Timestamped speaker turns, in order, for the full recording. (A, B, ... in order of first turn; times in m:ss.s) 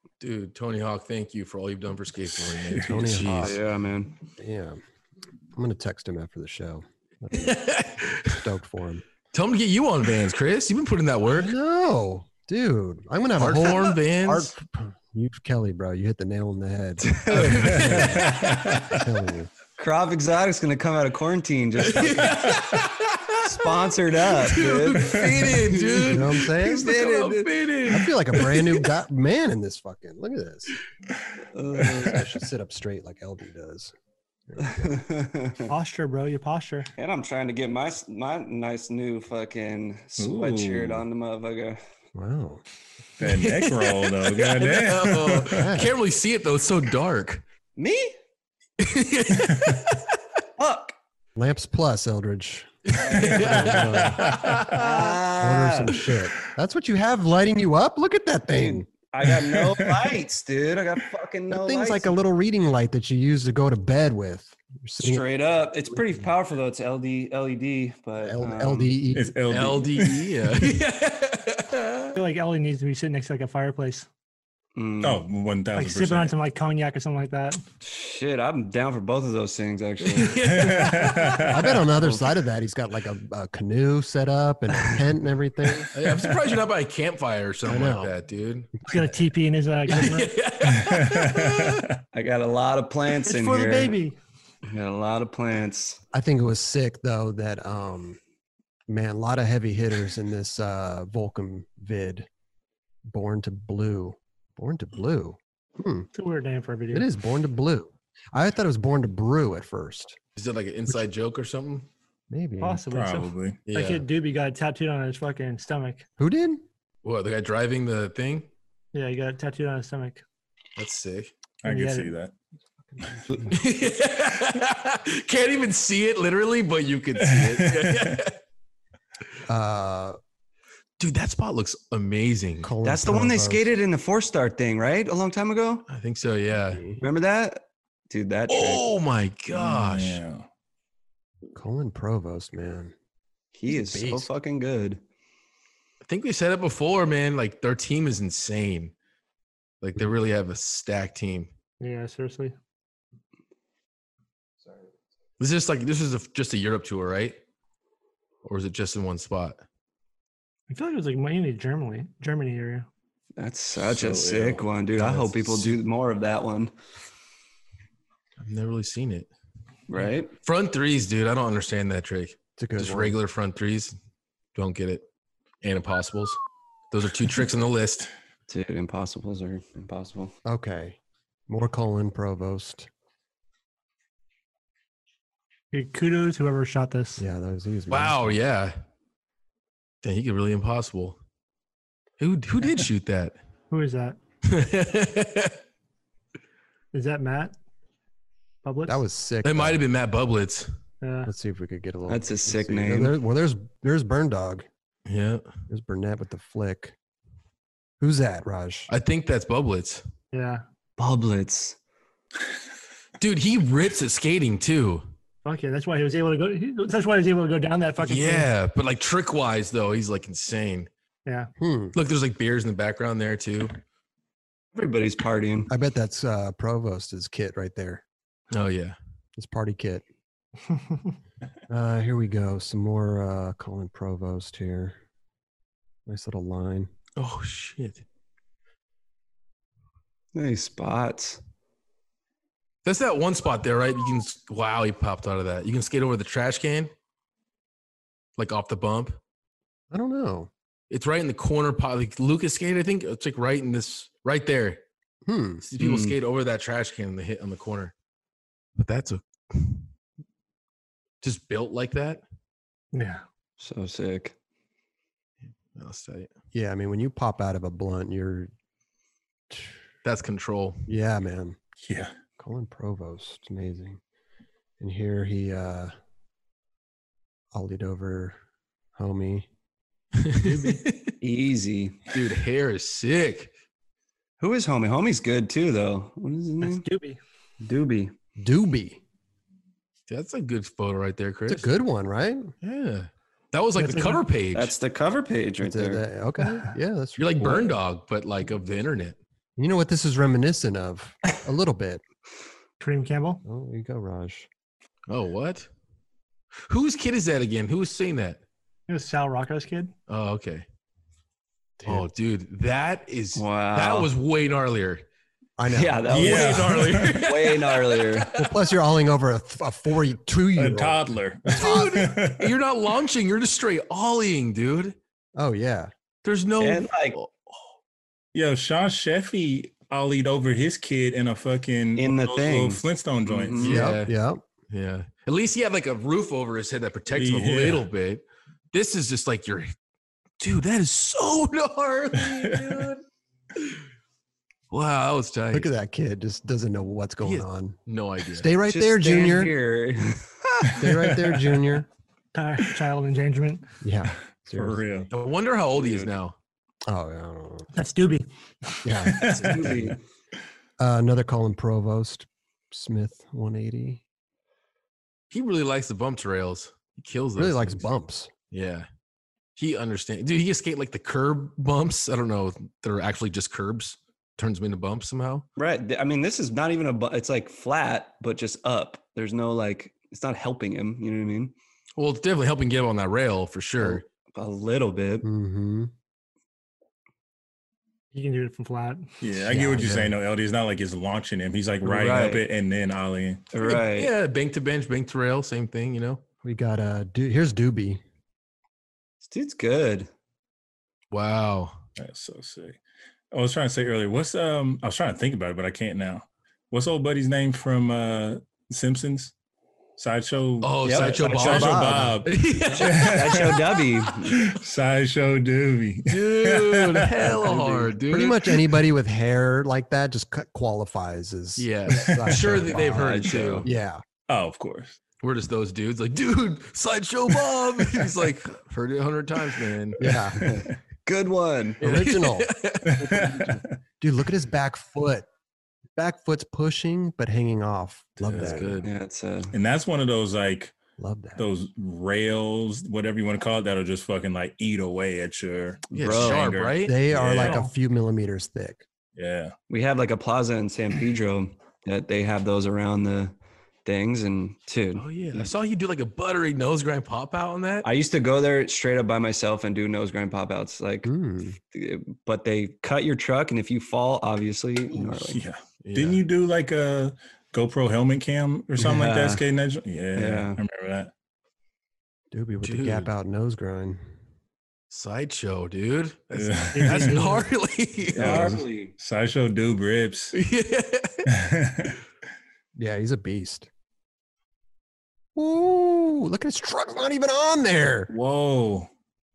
0:00.2-0:03.6 A
0:02.5-0:03.0 B
0:02.8-0:03.6 C
0:03.3-0:04.2 D
0:04.4-0:04.8 C
0:05.5-0:07.7 C
0:07.3-0:08.4 A
0:08.2-0:09.0 C
0:09.3-0:11.5 A
0:11.3-0:19.5 C
0:13.4-0:14.5 A
0:17.1-0:18.2 D
0:17.3-0:18.6 A
0:17.6-0:19.0 B
0:19.8-0:22.6 D
0:21.8-0:28.8 A
0:23.4-0:27.6 D
0:25.0-0:25.6 B
0:26.1-0:27.0 C
0:27.8-0:30.8 C
0:31.5-0:32.2 D
0:31.9-0:33.9 C
0:34.5-0:35.0 C
0:34.6-0:35.7 D
0:35.7-0:36.9 E
0:37.0-0:41.8 D
0:40.2-0:41.1 B
0:42.2-0:42.6 C
0:43.2-0:45.7 B
0:43.2-0:47.4 A
0:45.5-0:45.9 C
0:47.8-0:48.2 D
0:48.8-0:50.2 A
0:49.5-0:49.8 B
0:50.6-0:50.9 D
0:51.4-0:54.3 C
0:52.9-0:55.2 A
0:53.0-0:53.8 D
0:53.3-0:54.7 B
0:54.7-0:56.0 D
0:55.3-0:58.9 C
0:58.6-1:02.2 D
0:59.2-1:00.0 B
1:01.5-1:05.3 C
1:05.0-1:08.9 D
1:08.2-1:09.4 C
1:09.1-1:10.5 B
1:09.5-1:12.2 A
1:12.2-1:14.1 E
1:14.8-1:15.2 D
1:15.0-1:16.3 B
1:15.8-1:17.6 E
1:17.8-1:20.9 D
1:20.0-1:21.5 A
1:20.5-1:21.8 B
1:21.5-1:25.9 C
1:25.9-1:28.8 A
1:27.7-1:28.1 C
1:28.9-1:30.3 E
1:29.9-1:31.8 A
1:30.7-1:32.0 B
1:32.1-1:34.0 D
1:33.2-1:34.2 E
1:34.6-1:36.0 D
1:36.1-1:38.2 C
1:38.9-1:42.3 C
1:43.1-1:46.1 C
1:46.1-1:47.1 E
1:46.9-1:50.2 C
1:50.4-1:51.9 A
1:52.3-1:52.8 C
1:52.6-1:56.0 E
1:52.9-1:53.6 B
1:53.7-1:54.0 A
1:56.2-1:56.6 C
1:57.0-1:58.5 A
1:58.9-2:00.2 E
2:00.8-2:01.3 A
2:01.6-2:02.3 B
2:01.6-2:02.1 E
2:02.9-2:03.5 C
2:03.5-2:08.4 A
2:07.4-2:08.2 B
2:09.5-2:10.2 C
2:11.0-2:12.7 A
2:12.6-2:13.7 C
2:12.8-2:15.8 D
2:15.9-2:16.9 A
2:16.7-2:17.0 C
2:17.0-2:18.9 D
2:18.5-2:20.2 A
2:19.5-2:20.5 B
2:21.5-2:22.9 C
2:23.6-2:25.0 D
2:23.7-2:24.3 C
2:26.0-2:28.9 A
2:29.8-2:31.5 A
2:31.8-2:32.5 E
2:35.4-2:37.4 A
2:38.4-2:39.6 A
2:40.7-2:42.9 E
2:43.4-2:46.7 D
2:43.8-2:44.6 B
2:45.0-2:45.7 A
2:48.4-2:49.3 A
2:49.9-2:50.3 D
2:50.4-2:54.0 A
2:52.6-2:53.2 C
2:54.6-2:55.0 A
2:55.6-2:56.4 A
2:56.9-2:58.1 A
2:58.5-3:00.3 D
3:00.4-3:01.0 C
3:01.5-3:02.9 C
3:05.7-3:07.2 E
3:07.2-3:08.4 C
3:07.9-3:08.8 A
3:10.0-3:11.2 A
3:12.2-3:13.4 A
3:13.7-3:14.2 E
3:14.4-3:15.6 A
3:16.9-3:17.6 E
3:18.6-3:19.0 E
3:18.9-3:19.8 C
3:19.4-3:20.7 A
3:21.0-3:21.3 E
3:21.3-3:24.7 C
3:22.1-3:23.2 D
3:25.1-3:25.5 A
3:25.7-3:27.0 C
3:28.0-3:28.9 C
3:28.9-3:30.0 A
3:30.3-3:30.6 E
3:31.0-3:31.8 D
3:33.2-3:35.1 A
3:35.4-3:38.5 E
3:38.0-3:40.9 A
3:41.3-3:41.5 E
3:41.6-3:41.9 C
3:41.9-3:43.8 A
3:44.8-3:45.7 D
3:45.7-3:48.0 C
3:48.5-3:49.0 A
3:49.4-3:50.0 C
3:50.7-3:51.1 E
3:51.7-3:55.0 C
3:56.1-3:56.9 C
3:57.2-3:58.0 A
4:00.3-4:01.4 D
4:02.8-4:06.9 A
4:08.4-4:09.2 A
4:09.9-4:10.5 C
4:10.9-4:14.8 A
4:15.3-4:15.6 C
4:15.6-4:17.9 A
4:15.8-4:16.2 D
4:18.8-4:19.9 A
4:21.2-4:22.2 A
4:22.9-4:23.2 E
4:23.6-4:24.4 D
4:25.4-4:26.3 A
4:26.5-4:28.5 C
4:29.5-4:29.8 C
4:30.0-4:30.8 A
4:30.9-4:31.6 C
4:31.8-4:32.1 B
4:32.4-4:34.0 C
4:34.8-4:35.9 C
4:37.5-4:38.4 C
4:39.0-4:39.5 C
4:40.2-4:41.2 A
4:41.2-4:42.1 D
4:42.1-4:43.5 A
4:44.4-4:46.9 D
4:46.6-4:47.2 E
4:47.6-4:48.1 D
4:48.4-4:49.0 C
4:50.1-4:51.7 A
4:51.5-4:52.5 C
4:52.6-4:54.8 A
4:53.8-4:54.2 E
4:54.5-4:56.0 D
4:55.6-4:57.7 C
4:56.4-4:56.7 E
4:57.2-4:59.2 A
4:59.6-5:02.0 C
5:02.8-5:03.4 E
5:03.4-5:04.5 C
5:05.1-5:05.7 A
5:06.6-5:08.4 A
5:08.9-5:09.9 E
5:10.1-5:10.6 A
5:11.8-5:15.1 A
5:13.4-5:14.1 D
5:15.6-5:16.5 C
5:15.7-5:18.3 D
5:16.1-5:18.5 A
5:16.1-5:17.2 B
5:18.4-5:22.1 C
5:20.6-5:22.5 B
5:21.5-5:25.0 A
5:25.4-5:25.9 C
5:26.2-5:27.7 A
5:26.6-5:27.2 D
5:28.4-5:33.7 B
5:32.0-5:33.8 D
5:33.6-5:34.1 A
5:33.6-5:34.4 C
5:34.7-5:39.7 A
5:37.2-5:37.8 B
5:40.4-5:43.0 A
5:42.2-5:42.9 B
5:43.6-5:43.8 A
5:44.7-5:45.7 A
5:45.5-5:47.8 C
5:47.2-5:48.5 A
5:48.3-5:49.5 C
5:48.6-5:50.7 D
5:50.7-5:51.6 B
5:50.8-5:51.9 C
5:52.3-5:53.7 E
5:53.8-5:55.1 C
5:54.5-5:55.1 B
5:55.1-5:56.4 A
5:55.8-5:56.1 D
5:56.9-5:57.7 C
5:57.7-5:59.1 E
5:58.8-5:59.8 C
5:59.1-5:59.8 B
5:59.4-6:00.0 D
6:00.8-6:04.0 C
6:05.3-6:07.8 A
6:07.4-6:08.3 C
6:08.5-6:08.9 A
6:09.6-6:15.5 A
6:15.6-6:21.5 D
6:22.0-6:24.1 A
6:24.3-6:25.3 D
6:25.2-6:25.9 C
6:28.1-6:29.1 E
6:29.2-6:33.5 B
6:29.4-6:30.2 C
6:31.8-6:32.4 D
6:33.5-6:34.1 D
6:33.6-6:36.2 A
6:36.4-6:38.0 C
6:39.2-6:40.1 D
6:41.1-6:41.8 A
6:42.0-6:42.8 B
6:43.3-6:49.3 B
6:50.0-6:53.7 B
6:50.6-6:53.6 A
6:50.8-6:54.5 D
6:54.3-6:57.4 B
6:56.1-6:58.7 A
6:57.2-7:04.0 C
7:01.6-7:03.7 A
7:02.1-7:02.3 B
7:02.7-7:03.7 D
7:04.3-7:05.0 B
7:05.2-7:10.0 A
7:10.0-7:10.4 C
7:10.4-7:11.8 D
7:11.8-7:13.5 A
7:11.8-7:12.5 C
7:12.9-7:13.8 B
7:13.1-7:15.3 C
7:16.0-7:18.8 C
7:18.2-7:18.9 A
7:18.8-7:19.5 D
7:19.5-7:20.7 B
7:21.0-7:21.4 C
7:21.4-7:27.6 B
7:25.9-7:27.6 A
7:26.0-7:26.5 D
7:26.9-7:28.8 C
7:27.4-7:27.7 E
7:29.2-7:29.5 B
7:29.7-7:33.3 D
7:33.8-7:35.5 D
7:35.0-7:37.9 A
7:37.8-7:41.1 D
7:41.0-7:41.6 C
7:41.7-7:45.4 D
7:45.0-7:51.1 B
7:45.8-7:46.2 A
7:48.8-7:49.4 D
7:50.2-7:50.6 D
7:52.3-7:54.0 C
7:52.6-7:53.1 A
7:54.9-7:58.6 A
7:56.3-7:57.2 B
7:56.7-7:57.5 E
7:58.1-7:58.9 D
7:58.2-8:00.4 B
8:00.3-8:01.3 A
8:01.3-8:02.0 B
8:02.8-8:03.7 C
8:05.4-8:08.1 C
8:08.1-8:08.9 B